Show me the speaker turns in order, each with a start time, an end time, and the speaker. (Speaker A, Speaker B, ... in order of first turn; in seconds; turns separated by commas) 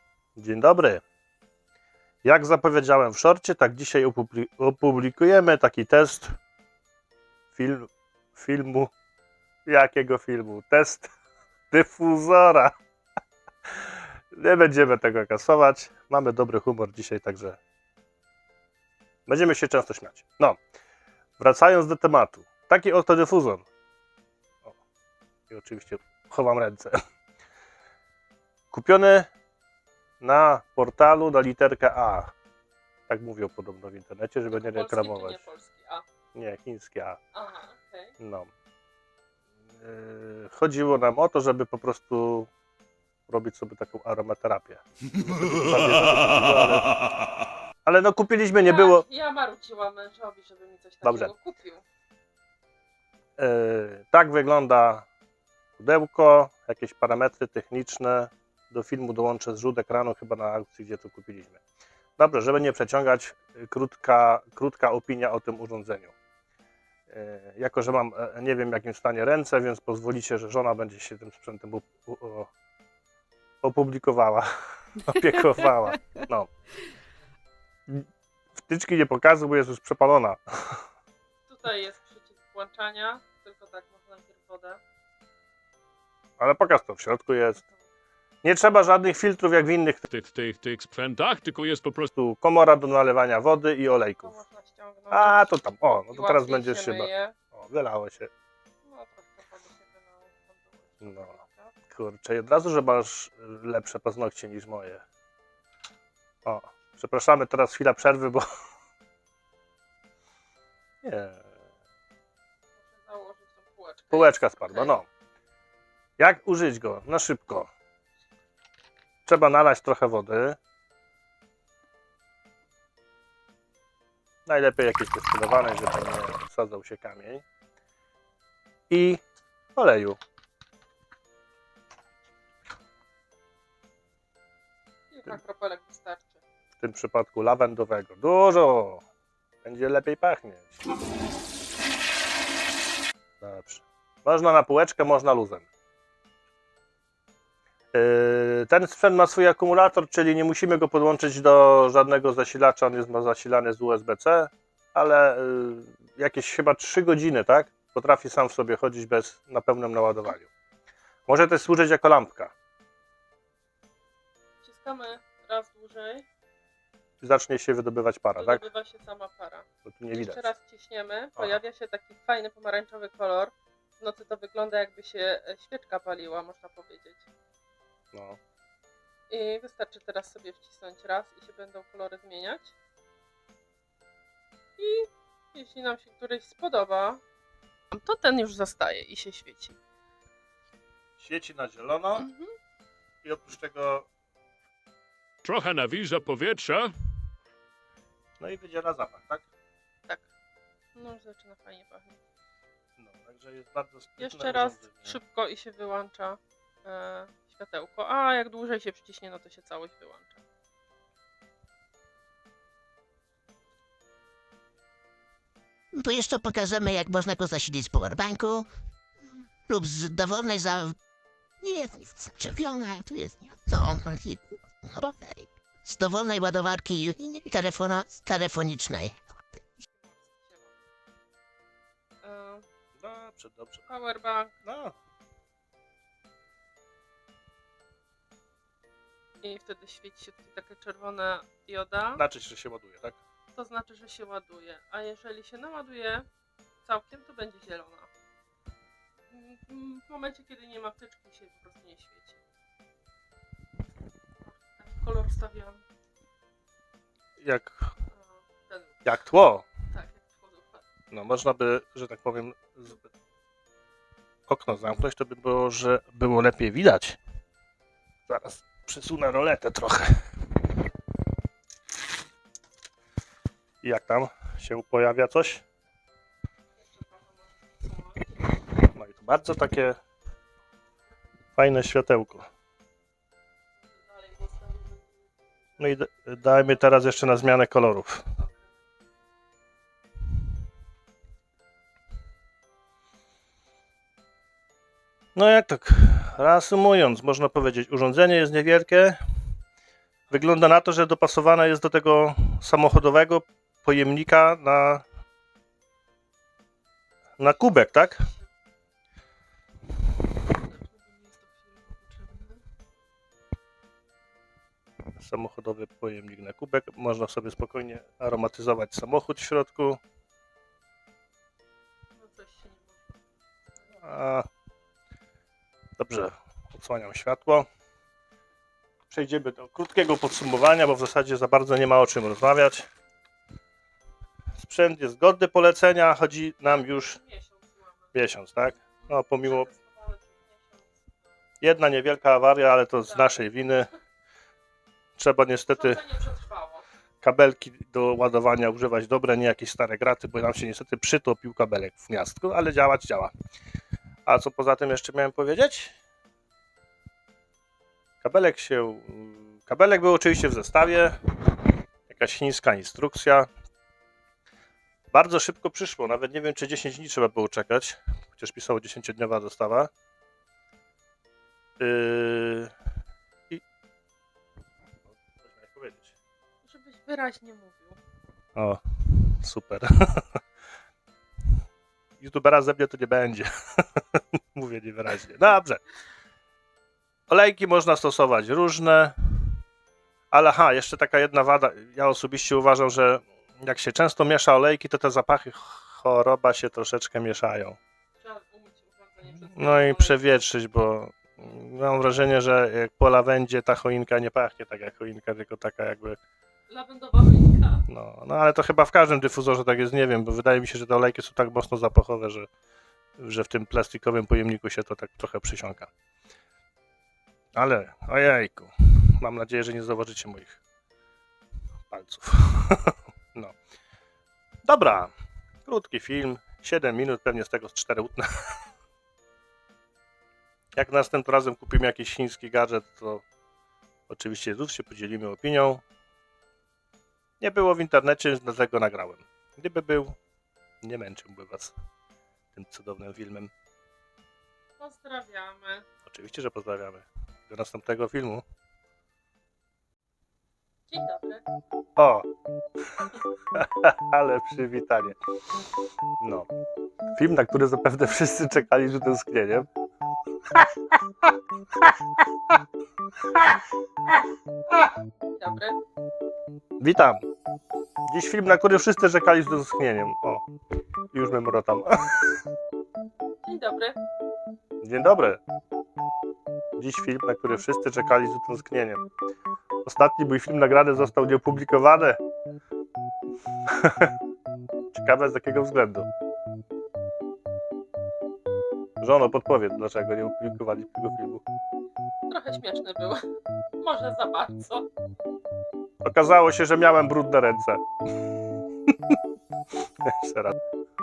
Speaker A: 0.3-1.0, Speaker A: 2.2-6.3, Speaker A: 7.5-8.9, Speaker A: 9.7-11.1, Speaker A: 11.7-12.7, Speaker A: 13.7-17.6, Speaker A: 19.3-20.6, Speaker A: 21.4-23.6, Speaker A: 25.5-26.9, Speaker A: 28.7-29.3, Speaker A: 30.2-32.3, Speaker A: 33.1-35.5, Speaker B: 34.5-36.0, Speaker A: 36.3-37.2, Speaker B: 37.3-38.1, Speaker A: 38.2-38.5, Speaker A: 39.8-42.5, Speaker A: 43.3-46.9, Speaker A: 47.8-49.0, Speaker B: 48.6-51.8, Speaker A: 51.0-51.3, Speaker A: 53.4-55.0, Speaker A: 55.8-61.6, Speaker A: 62.2-66.1, Speaker A: 67.1-72.5, Speaker A: 73.6-74.5, Speaker A: 75.0-76.5, Speaker A: 78.6-80.8, Speaker B: 81.5-84.8, Speaker A: 86.4-87.6, Speaker A: 88.4-90.0, Speaker C: 90.1-92.1, Speaker A: 92.1-94.4, Speaker B: 94.2-95.5, Speaker A: 95.1-98.3, Speaker B: 96.1-97.3, Speaker B: 98.8-101.8, Speaker A: 101.0-101.4, Speaker A: 101.9-105.0, Speaker A: 106.4-108.4, Speaker A: 111.0-111.4, Speaker B: 112.8-115.0, Speaker A: 114.1-115.0, Speaker A: 116.2-117.7, Speaker A: 119.2-120.6, Speaker A: 124.5-127.4, Speaker A: 128.9-129.2, Speaker A: 129.7-130.2, Speaker B: 135.1-136.4, Speaker A: 136.8-139.0, Speaker A: 139.6-140.7, Speaker A: 143.4-145.7, Speaker A: 147.9-160.5, Speaker A: 161.3-162.5, Speaker B: 164.6-166.2, Speaker A: 167.2-168.6, Speaker B: 168.3-177.2, Speaker A: 169.8-170.5, Speaker A: 178.1-178.4, Speaker B: 179.3-182.7, Speaker B: 184.8-187.2, Speaker B: 187.9-189.8, Speaker A: 191.2-192.2, Speaker B: 192.1-192.5, Speaker A: 193.2-194.1, Speaker C: 195.4-196.9, Speaker A: 198.4-199.4, Speaker B: 200.9-202.2, Speaker A: 203.0-205.2, Speaker B: 204.2-210.4, Speaker D: 215.9-218.7, Speaker D: 219.7-221.0, Speaker D: 221.6-229.2, Speaker B: 229.8-230.7, Speaker B: 232.2-232.7, Speaker A: 233.0-233.9, Speaker B: 233.9-234.5, Speaker A: 234.6-234.9, Speaker B: 239.4-242.2, Speaker A: 242.1-243.2, Speaker B: 243.5-246.3, Speaker B: 246.8-248.1, Speaker B: 249.3-252.4, Speaker B: 254.4-255.8, Speaker A: 257.4-257.9, Speaker B: 258.1-259.0, Speaker A: 259.0-259.6, Speaker B: 259.9-260.9, Speaker A: 261.1-263.0, Speaker A: 264.5-267.2, Speaker A: 268.3-270.1, Speaker A: 273.8-275.6, Speaker B: 276.8-278.6, Speaker A: 278.9-279.9, Speaker A: 281.6-282.4, Speaker B: 283.8-287.1, Speaker A: 285.8-288.2, Speaker B: 288.4-288.7, Speaker A: 295.3-299.2, Speaker A: 300.3-305.0, Speaker A: 307.4-308.2, Speaker B: 307.7-308.5, Speaker B: 310.5-312.6, Speaker A: 315.2-320.0, Speaker B: 322.1-323.2, Speaker B: 323.7-324.1, Speaker A: 324.0-324.4, Speaker A: 326.0-327.7, Speaker A: 329.1-332.9, Speaker A: 334.6-337.2, Speaker B: 336.7-338.1, Speaker A: 338.1-339.7, Speaker B: 339.0-341.1, Speaker A: 341.6-343.9, Speaker B: 343.1-343.4, Speaker A: 345.2-346.0, Speaker B: 345.7-346.8, Speaker A: 347.2-353.3, Speaker A: 354.2-355.9, Speaker A: 358.2-361.2, Speaker A: 362.1-363.5, Speaker A: 365.1-369.9, Speaker A: 371.8-372.7, Speaker A: 375.1-376.1, Speaker B: 376.6-378.0, Speaker A: 378.6-380.4, Speaker A: 382.2-385.8, Speaker A: 387.3-389.1, Speaker A: 390.3-397.8, Speaker B: 398.2-400.4, Speaker A: 399.2-406.2, Speaker B: 406.7-407.8, Speaker A: 407.9-412.5, Speaker A: 413.2-415.9, Speaker A: 417.5-420.6, Speaker A: 421.9-423.6, Speaker A: 424.6-425.1, Speaker A: 425.6-428.3, Speaker A: 430.7-433.2, Speaker A: 434.1-435.8, Speaker A: 437.4-440.1, Speaker A: 440.8-441.7, Speaker A: 442.5-443.5, Speaker B: 444.8-445.9, Speaker A: 446.1-448.4, Speaker B: 450.9-451.5, Speaker A: 452.0-452.2, Speaker A: 453.0-455.2, Speaker A: 456.2-456.5, Speaker A: 457.1-459.7, Speaker A: 461.2-461.9, Speaker B: 465.4-465.8, Speaker A: 466.8-467.2, Speaker A: 468.1-470.4, Speaker A: 471.1-472.2, Speaker B: 473.4-474.0, Speaker A: 474.8-475.4, Speaker A: 476.8-479.0, Speaker A: 479.9-482.2, Speaker A: 483.7-484.1, Speaker A: 484.9-486.1, Speaker A: 489.0-491.4, Speaker B: 492.3-493.2, Speaker B: 493.8-494.9, Speaker A: 496.0-497.8, Speaker A: 500.0-500.6